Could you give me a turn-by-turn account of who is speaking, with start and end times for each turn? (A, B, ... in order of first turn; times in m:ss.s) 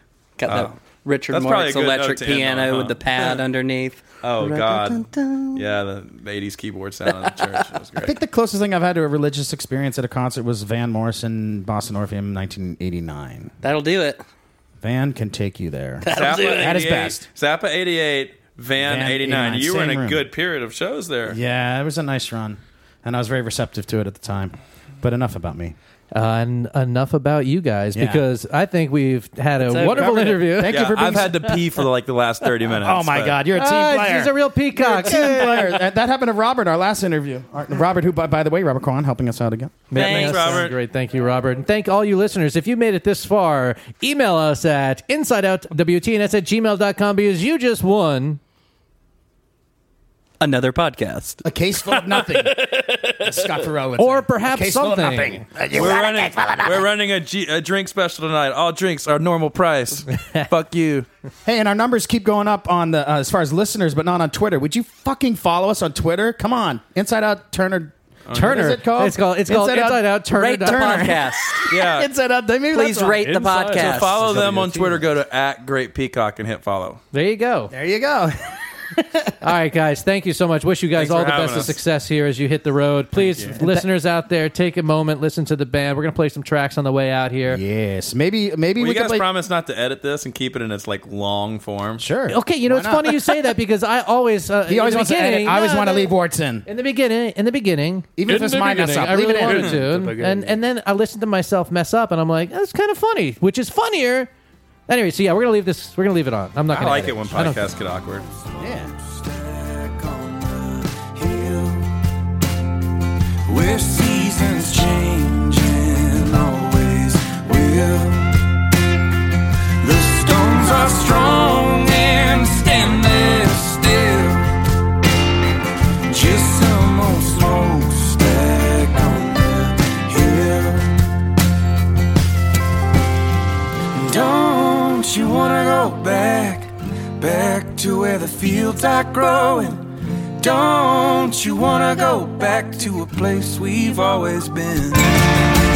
0:00.4-0:05.6 A
0:00.4-0:00.7 B
0:01.3-0:03.4 B
0:04.2-0:08.2 B
0:08.0-0:13.5 C
0:13.6-0:14.2 A
0:14.8-0:17.2 C
0:16.0-0:16.7 A
0:16.1-0:21.4 B
0:18.8-0:20.2 C
0:21.2-0:25.7 C
0:26.1-0:31.2 D
0:27.9-0:28.2 C
0:29.7-0:31.5 C
0:30.6-0:33.4 B
0:32.8-0:39.9 C
0:33.5-0:35.8 D
0:39.9-0:48.4 D
0:39.9-0:40.6 A
0:39.9-0:40.7 B
0:50.4-0:53.5 A
0:51.4-0:52.6 C
0:53.2-0:56.8 C
0:54.0-0:55.4 D
0:55.7-1:01.1 B
1:01.4-1:14.7 C
1:08.3-1:08.8 B
1:08.3-1:11.2 D
1:10.3-1:11.7 A
1:11.7-1:12.1 B
1:12.7-1:14.4 A
1:13.2-1:17.0 B
1:14.2-1:15.0 D
1:17.1-1:17.7 D
1:17.7-1:19.2 C
1:19.4-1:27.6 D
1:21.0-1:21.8 B
1:23.2-1:23.6 B
1:23.4-1:23.8 C
1:27.5-1:29.2 C
1:28.8-1:32.0 B
1:32.0-1:33.5 C
1:32.3-1:36.1 D
1:34.7-1:36.6 C
1:36.7-1:44.3 D
1:38.2-1:40.4 C
1:39.4-1:39.8 B
1:39.6-1:40.1 E
1:44.9-1:47.6 D
1:46.7-1:48.3 B
1:48.6-1:48.9 C
1:48.9-1:51.9 E
1:53.5-1:58.3 E
1:59.8-2:04.5 E
2:06.1-2:10.9 E
2:13.9-2:25.3 E